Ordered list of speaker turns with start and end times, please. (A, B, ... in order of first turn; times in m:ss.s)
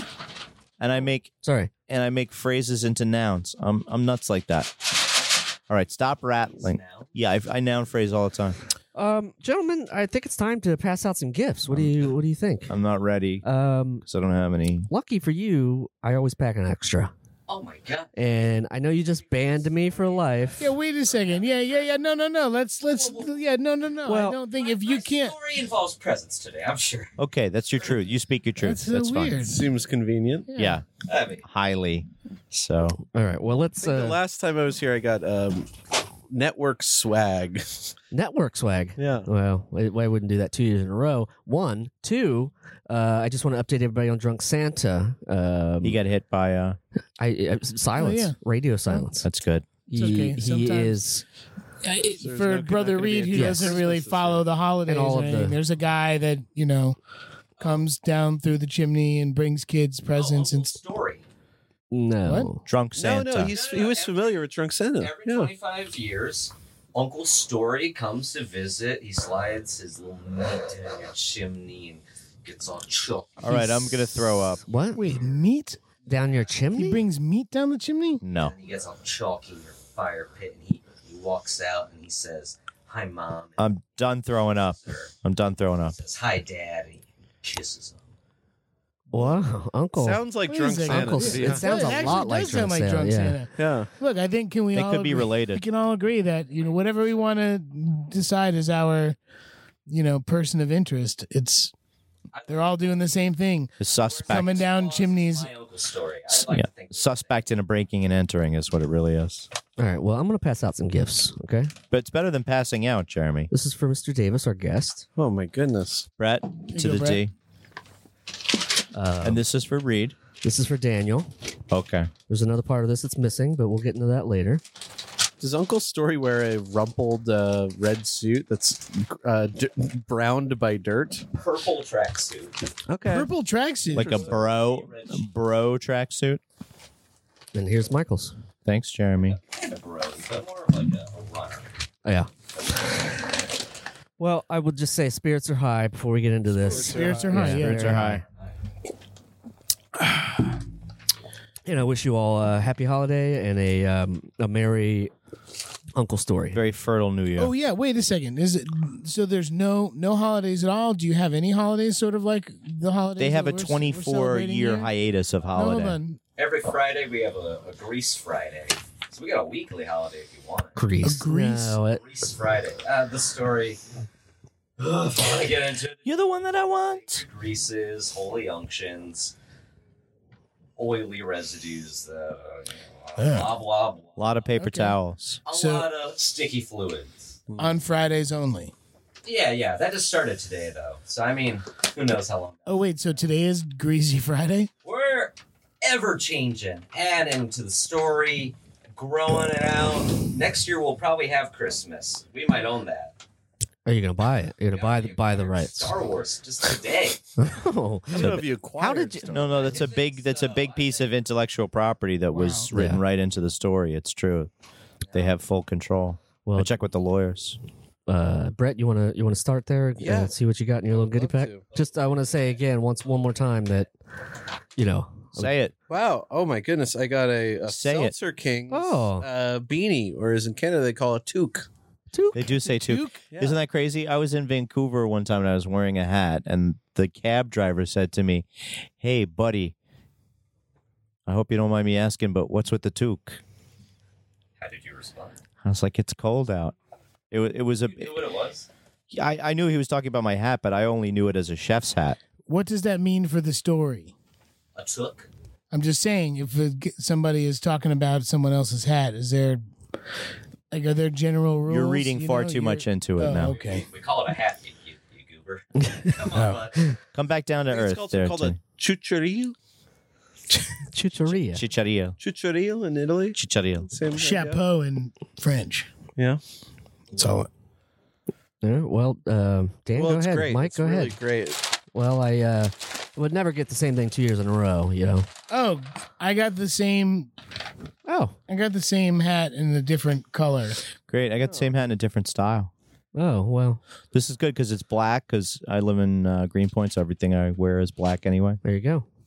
0:00.8-0:01.3 A
0:01.4-0:01.7 B
0:01.9-0:04.9 A
0:05.7-0:08.6 A
0:06.6-0:07.1 C
0:09.0-0:12.8 B
0:11.7-0:12.0 A
0:12.7-0:13.4 A
0:13.4-0:14.0 B
0:14.0-0:14.9 A
0:14.9-0:17.1 B
0:17.5-0:18.1 C
0:18.2-0:20.6 B
0:19.1-0:22.1 C
0:20.6-0:25.4 D
0:22.9-0:23.4 C
0:24.1-0:24.4 B
0:24.6-0:27.1 C
0:27.2-0:29.4 A
0:28.6-0:29.7 D
0:29.4-0:30.5 E
0:30.5-0:30.8 D
0:30.6-0:30.9 A
0:31.0-0:31.4 C
0:31.4-0:33.0 A
0:33.1-0:34.2 B
0:33.8-0:35.7 E
0:36.3-0:37.9 E
0:38.1-0:46.0 B
0:39.0-0:39.3 E
0:45.8-0:46.8 A
0:47.2-0:49.3 B
0:48.0-0:48.4 D
0:49.2-0:49.7 A
0:49.9-0:51.2 B
0:49.9-0:51.0 D
0:51.8-0:57.0 D
0:52.2-0:54.4 E
0:53.3-0:53.8 B
0:54.9-0:55.6 B
0:57.6-0:57.8 C
0:57.6-1:00.8 D
1:00.2-1:01.2 C
1:01.9-1:02.6 B
1:02.6-1:03.6 A
1:03.0-1:05.5 E
1:03.5-1:13.6 C
1:13.4-1:14.6 A
1:13.5-1:14.0 D
1:14.6-1:15.3 C
1:14.7-1:15.0 B
1:15.0-1:15.8 D
1:16.1-1:17.0 B
1:16.7-1:18.2 D
1:18.2-1:18.5 A
1:18.4-1:23.7 C
1:23.6-1:26.0 A
1:24.8-1:25.1 C
1:25.9-1:28.0 C
1:29.1-1:30.2 B
1:30.0-1:32.3 E
1:30.5-1:39.2 D
1:30.8-1:33.4 B
1:33.6-1:33.9 E
1:34.7-1:35.6 A
1:36.6-1:37.3 C
1:39.9-1:41.7 D
1:42.3-1:43.2 C
1:42.5-1:43.8 D
1:43.8-1:44.6 A
1:44.0-1:47.4 C
1:44.3-1:45.5 D
1:46.3-1:49.5 A
1:49.8-1:51.7 B
1:51.9-1:53.5 A
1:53.5-1:55.1 B
1:55.2-1:56.1 E
1:56.2-1:57.3 A
1:56.7-1:57.2 D
1:58.9-1:59.4 B
1:59.2-2:00.2 A
2:00.4-2:01.3 B
2:01.7-2:02.1 A
2:02.3-2:04.6 B
2:05.4-2:11.2 E
2:11.3-2:12.6 C
2:12.9-2:13.3 E
2:13.1-2:14.3 D
2:13.9-2:16.4 A
2:14.0-2:14.4 E
2:14.3-2:15.3 C
2:17.5-2:18.3 B
2:18.7-2:19.4 A
2:19.3-2:21.7 C
2:22.0-2:22.3 B
2:24.2-2:28.2 B
2:26.5-2:27.5 E
2:26.8-2:28.2 D
2:27.4-2:28.2 A
2:31.6-2:35.1 B
2:35.9-2:36.6 B
2:36.5-2:37.5 A
2:37.4-2:44.9 D
2:43.2-2:46.0 A
2:45.5-2:46.2 D
2:46.4-2:50.8 C
2:50.8-2:52.0 B
2:51.0-2:51.8 D
2:52.0-2:53.8 C
2:54.8-2:59.3 C
2:56.0-2:57.2 A
3:00.8-3:04.5 C
3:03.2-3:03.6 D
3:04.2-3:05.4 A
3:04.6-3:05.9 D
3:05.5-3:07.4 C
3:07.6-3:08.7 D
3:09.2-3:12.8 C
3:12.7-3:14.7 D
3:14.8-3:23.2 C
3:23.9-3:25.9 B
3:24.7-3:27.2 C
3:27.4-3:29.4 B
3:28.1-3:29.8 E
3:29.3-3:34.5 A
3:29.4-3:31.1 C
3:32.3-3:32.7 D
3:32.7-3:33.0 B
3:35.1-3:35.4 C
3:35.1-3:37.6 A
3:36.5-3:36.7 B
3:38.1-3:43.9 B
3:40.0-3:40.3 E
3:40.9-3:41.7 E
3:41.7-3:43.9 C
3:44.8-3:45.5 B
3:45.4-3:45.7 A
3:45.9-3:51.7 E
3:47.7-3:48.2 A
3:48.7-3:49.3 B
3:52.1-3:53.1 B
3:52.3-3:58.5 A
3:52.9-3:53.6 E
3:59.0-3:59.7 A
4:01.3-4:03.4 A
4:04.6-4:05.4 C
4:05.6-4:06.7 A
4:07.3-4:08.1 A
4:07.8-4:08.7 C
4:09.1-4:12.2 A
4:12.5-4:14.1 D
4:14.8-4:15.3 C
4:15.7-4:19.6 D
4:20.7-4:23.8 D
4:21.7-4:23.6 A
4:23.4-4:27.0 C
4:25.8-4:26.1 B
4:26.3-4:26.6 D
4:27.1-4:28.6 A
4:27.7-4:29.6 E
4:30.9-4:31.6 B
4:31.4-4:32.2 A
4:32.2-4:34.6 E
4:33.4-4:33.9 A
4:34.1-4:35.9 D
4:36.2-4:36.4 E
4:37.1-4:37.5 D
4:38.6-4:41.2 B
4:39.9-4:41.6 E
4:41.9-4:45.3 B
4:45.5-4:47.3 D
4:48.1-4:48.4 B
4:48.5-4:50.8 D
4:51.1-4:52.7 A
4:53.2-4:53.8 B
4:54.1-4:58.6 A
4:58.6-4:59.0 B